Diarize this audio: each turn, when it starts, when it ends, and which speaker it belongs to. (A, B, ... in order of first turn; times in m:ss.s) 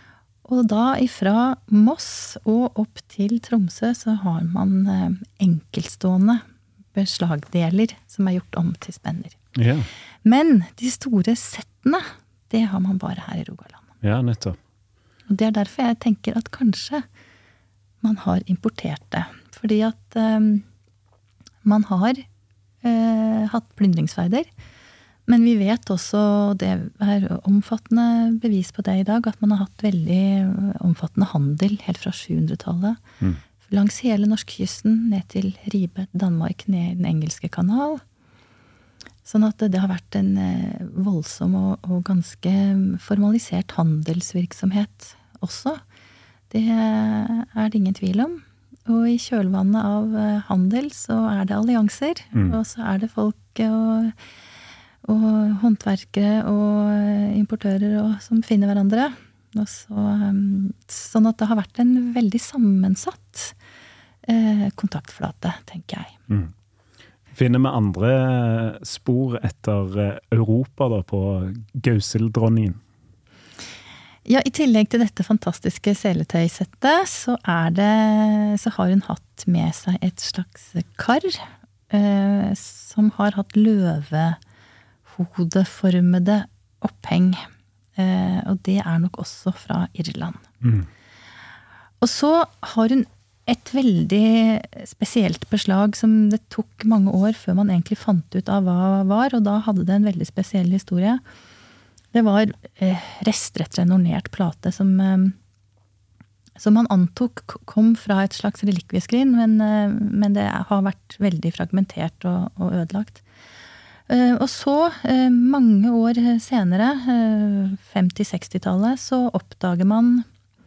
0:00.4-0:09.4 A
0:09.6-0:09.9 B
0:10.2-0:13.8 A
0:14.0-0:14.6 B
0:15.3-0:17.0 A
0:18.0-0:20.6 A
0:21.6-0:22.2 A
0:22.8-0:24.5 A
0:25.3-0:33.0 A
0:33.6-0:38.0 A
0:39.2-0:45.8 A
0:46.5-0:54.1 A
0:55.0-1:03.5 A
1:04.3-1:06.1 A
1:07.3-1:12.8 B
1:14.2-1:24.4 A
1:25.1-1:30.4 A
1:30.6-1:30.9 B
1:32.0-1:41.2 A
1:42.1-1:45.4 A
1:46.6-1:53.2 A
1:54.1-2:00.2 A